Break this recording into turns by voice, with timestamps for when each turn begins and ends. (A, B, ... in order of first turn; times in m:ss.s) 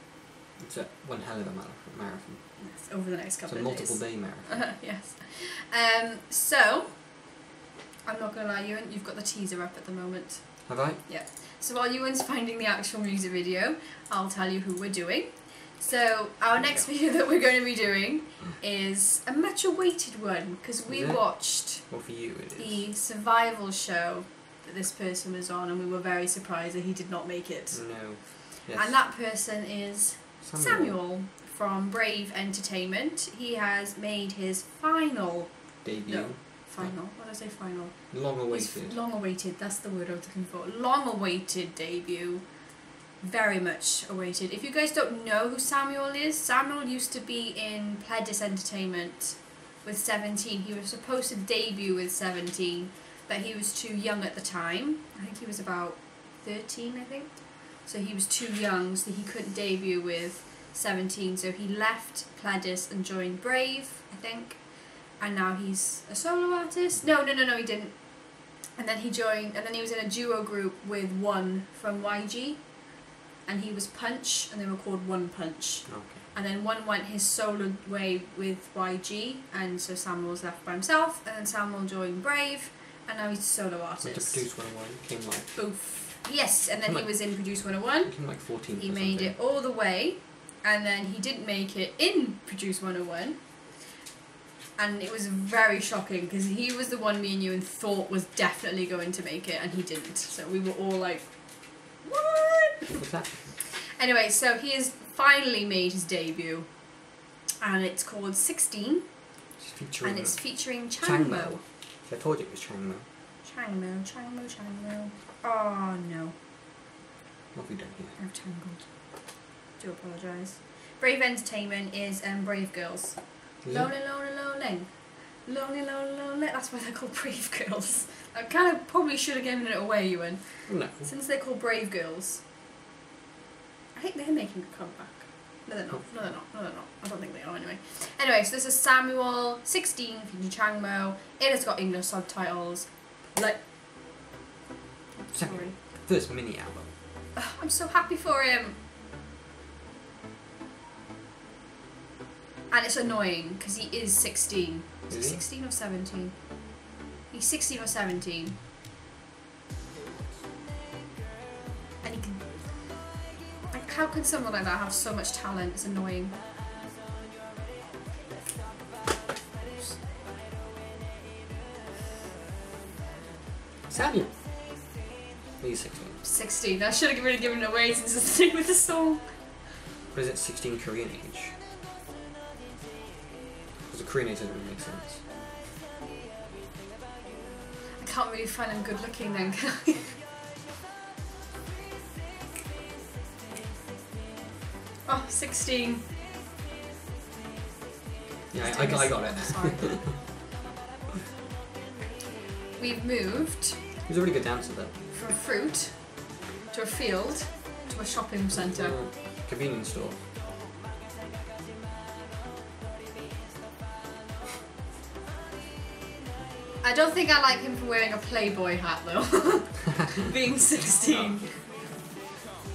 0:00.6-0:02.6 A
0:02.6-0:07.3 B
0:03.5-0:04.7 A
0:08.0-1:24.4 B
0:10.6-0:11.0 A
0:16.5-0:16.9 A
0:20.9-0:22.8 A
0:27.7-0:29.0 A
0:30.4-0:31.0 A
0:35.8-0:37.0 A
0:38.1-0:39.0 A
1:15.9-1:16.2 A
1:24.0-1:25.6 A
1:25.6-1:34.0 B
1:26.9-1:29.4 A
1:34.8-1:43.0 B
1:43.0-1:43.4 A
1:44.0-1:47.1 B
1:47.6-1:49.1 B
1:49.6-1:53.0 A
1:50.0-1:51.6 B
1:53.4-1:56.4 B
1:57.5-1:58.2 A
1:58.2-2:12.4 B
2:03.6-2:03.9 A
2:10.7-2:11.1 A
2:13.9-2:23.6 B
2:25.2-2:25.8 B
2:25.3-2:26.9 A
2:27.4-2:28.8 B
2:32.7-2:38.6 B
2:35.1-2:35.4 A
2:42.0-2:43.1 B
2:43.7-2:46.4 B
2:53.9-2:54.3 A
2:55.6-2:56.2 A
2:56.2-2:59.7 B
3:00.1-3:01.6 A
3:03.8-3:05.2 A
3:08.0-3:10.2 B
3:15.0-3:16.0 B
3:18.5-3:20.1 A
3:18.6-3:19.9 B
3:22.8-3:23.9 B
3:24.1-3:24.9 A
3:25.1-3:29.0 B
3:28.5-3:30.2 A
3:36.8-3:41.5 B